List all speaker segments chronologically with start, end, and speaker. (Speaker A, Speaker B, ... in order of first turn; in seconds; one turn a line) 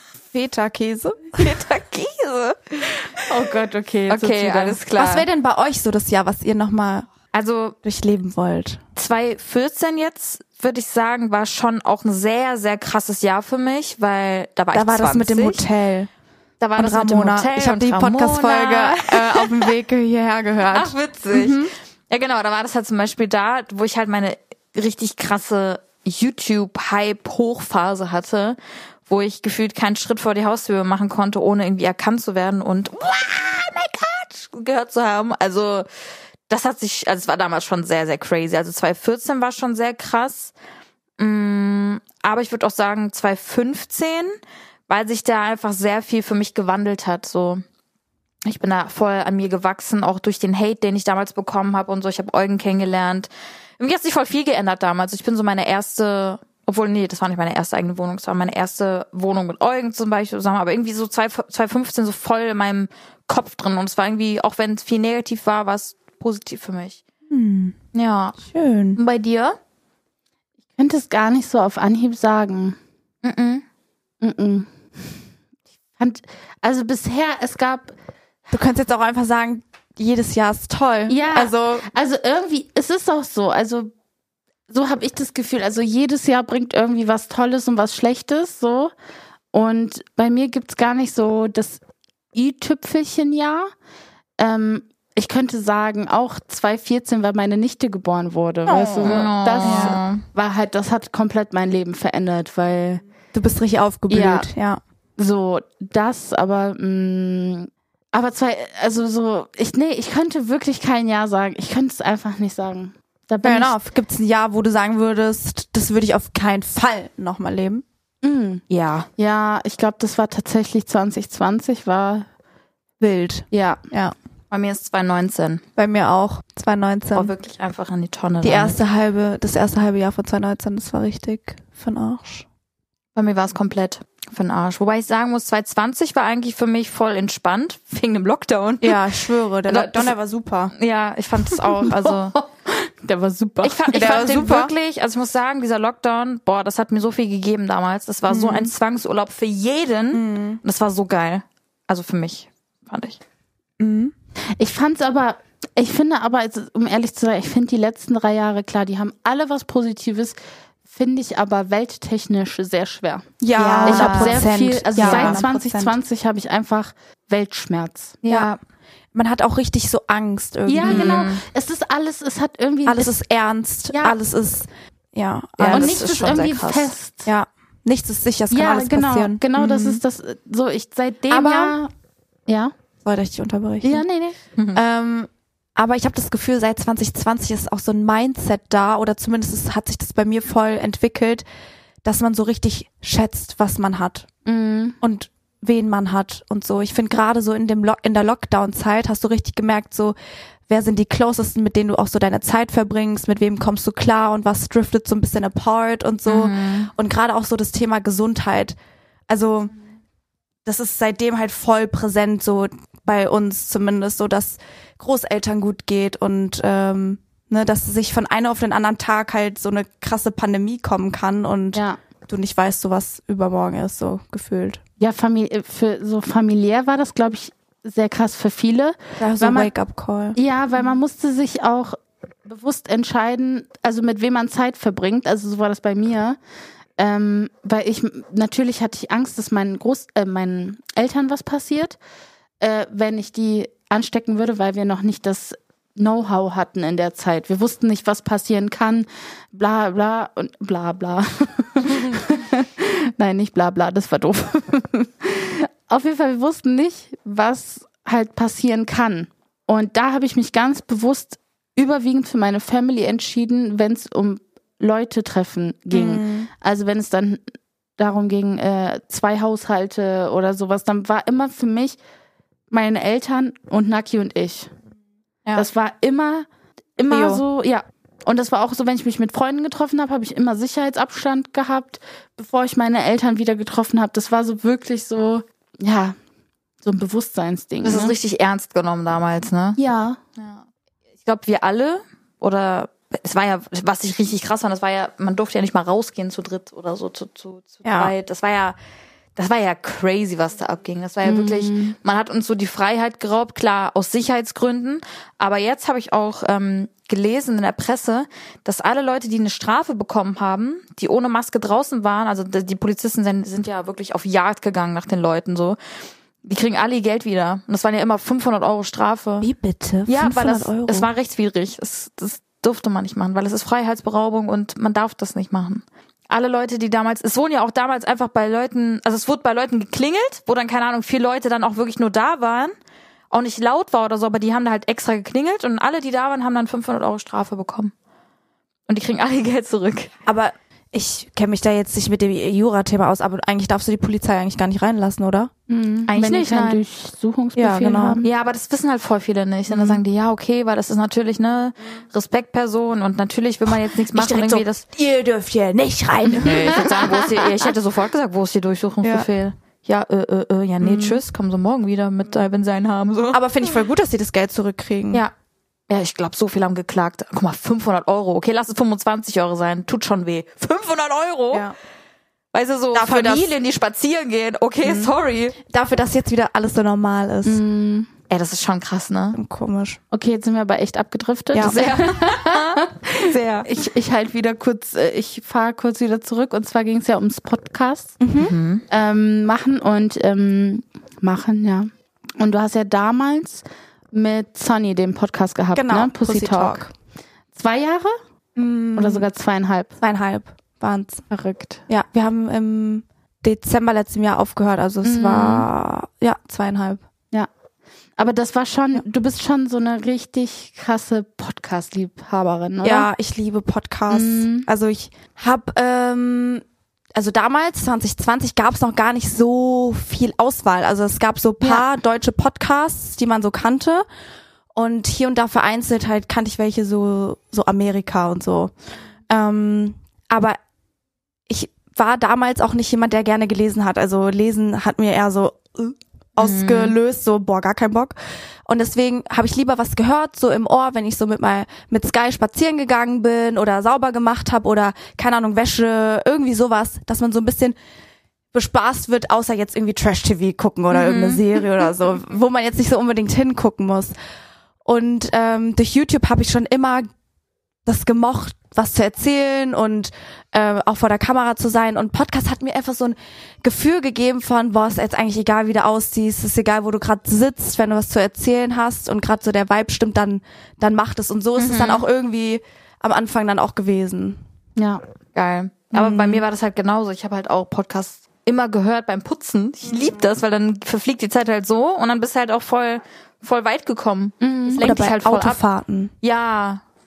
Speaker A: 0.3-1.5
Speaker B: 1.4-3.2
Speaker C: 3.2-4.8
Speaker B: 4.1-5.3
Speaker A: 5.0-7.1
Speaker B: 7.3-7.8
Speaker A: 7.8-8.8
Speaker B: 8.9-15.6
Speaker A: 14.7-16.1
Speaker B: 16.6-19.7
Speaker A: 16.8-21.7
Speaker B: 20.7-35.9
Speaker B: 36.5-40.5
Speaker B: 41.2-44.3
Speaker B: 44.9-47.6
Speaker B: 48.4-67.0
Speaker A: 67.3-67.8
Speaker B: 67.9-68.4
Speaker A: 68.4-69.0
Speaker B: 69.0-69.6
Speaker C: 70.8-72.8
Speaker B: 73.2-73.6
Speaker C: 74.2-74.7
Speaker C: 76.0-77.9
Speaker A: 78.5-81.9
Speaker C: 81.1-83.9
Speaker C: 84.7-88.9
Speaker C: 89.5-91.8
Speaker C: 92.3-93.7
Speaker C: 94.4-103.0
Speaker A: 98.7-100.0
Speaker B: 99.0-100.2
Speaker A: 103.3-104.8
Speaker C: 104.1-104.5
Speaker C: 105.2-113.8
Speaker A: 113.4-117.8
Speaker C: 118.2-118.6
Speaker B: 118.7-119.1
Speaker C: 119.2-122.3
Speaker A: 123.0-124.1
Speaker C: 123.5-123.8
Speaker B: 124.5-125.6
Speaker A: 125.8-127.3
Speaker B: 127.1-128.8
Speaker A: 128.4-132.4
Speaker B: 133.2-139.0
Speaker A: 138.8-140.7
Speaker B: 139.7-140.1
Speaker B: 140.7-142.3
Speaker C: 141.5-144.2
Speaker B: 143.6-153.2
Speaker A: 143.9-144.7
Speaker A: 148.3-148.7
Speaker A: 150.1-150.6
Speaker A: 153.8-154.1
Speaker C: 154.6-160.3
Speaker C: 160.9-163.3
Speaker A: 163.4-166.0
Speaker B: 163.6-165.4
Speaker C: 163.8-168.2
Speaker B: 168.2-168.6
Speaker A: 169.1-171.3
Speaker C: 170.7-173.2
Speaker B: 170.8-171.4
Speaker A: 172.8-179.4
Speaker B: 175.6-176.8
Speaker C: 175.7-177.3
Speaker C: 178.5-181.9
Speaker B: 179.6-180.0
Speaker A: 181.3-181.8
Speaker C: 182.5-182.7
Speaker A: 183.0-184.0
Speaker C: 183.8-184.4
Speaker B: 184.6-184.8
Speaker A: 184.7-191.4
Speaker A: 192.0-194.3
Speaker C: 194.4-195.0
Speaker A: 195.0-200.1
Speaker A: 200.7-208.8
Speaker B: 206.3-206.9
Speaker A: 209.3-209.7
Speaker A: 210.6-224.8
Speaker C: 225.0-229.7
Speaker A: 229.2-230.4
Speaker C: 230.3-236.4
Speaker C: 237.0-242.0
Speaker C: 242.6-267.4
Speaker A: 265.9-266.5
Speaker C: 268.0-272.0
Speaker C: 272.7-274.7
Speaker C: 275.5-286.2
Speaker A: 277.1-277.4
Speaker C: 286.8-288.1
Speaker B: 287.8-289.8
Speaker A: 287.9-288.1
Speaker C: 289.8-290.2
Speaker B: 290.4-290.6
Speaker B: 291.2-298.8
Speaker A: 297.8-298.1
Speaker B: 299.4-315.8
Speaker C: 301.2-301.9
Speaker B: 316.4-319.5
Speaker A: 319.4-321.1
Speaker B: 320.1-332.7
Speaker B: 333.3-337.9
Speaker B: 338.9-340.1
Speaker A: 340.3-345.5
Speaker C: 345.7-348.2
Speaker B: 346.1-346.8
Speaker A: 347.6-348.2
Speaker B: 348.2-354.8
Speaker A: 349.7-350.0
Speaker A: 354.1-357.1
Speaker B: 356.4-363.4
Speaker C: 356.5-357.2
Speaker A: 360.8-361.2
Speaker A: 363.3-365.2
Speaker B: 365.9-371.7
Speaker B: 372.5-375.6
Speaker A: 372.9-373.5
Speaker A: 374.8-375.1
Speaker A: 375.7-377.6
Speaker C: 377.4-378.1
Speaker B: 378.3-379.4
Speaker A: 379.3-380.0
Speaker C: 380.1-388.1
Speaker A: 381.5-381.8
Speaker B: 381.6-383.7
Speaker A: 388.2-388.5
Speaker B: 388.4-388.8
Speaker C: 388.9-396.8
Speaker A: 395.7-396.9
Speaker C: 397.5-398.1
Speaker A: 398.6-399.2
Speaker C: 398.9-399.9
Speaker A: 400.0-401.2
Speaker C: 401.3-401.8
Speaker A: 401.9-407.0
Speaker C: 405.0-405.7
Speaker C: 408.2-413.1
Speaker A: 412.8-416.6
Speaker C: 414.1-414.7
Speaker A: 417.1-424.0
Speaker A: 424.7-428.7
Speaker A: 429.3-430.6
Speaker A: 431.5-438.1
Speaker B: 436.4-436.9
Speaker A: 438.7-447.7
Speaker A: 448.5-454.1
Speaker B: 450.9-451.6
Speaker A: 454.8-457.1
Speaker A: 457.8-474.4
Speaker B: 471.6-472.0
Speaker C: 474.8-475.0
Speaker B: 475.3-485.6
Speaker A: 475.9-476.4
Speaker C: 484.4-484.9
Speaker A: 484.8-486.1
Speaker B: 486.2-486.8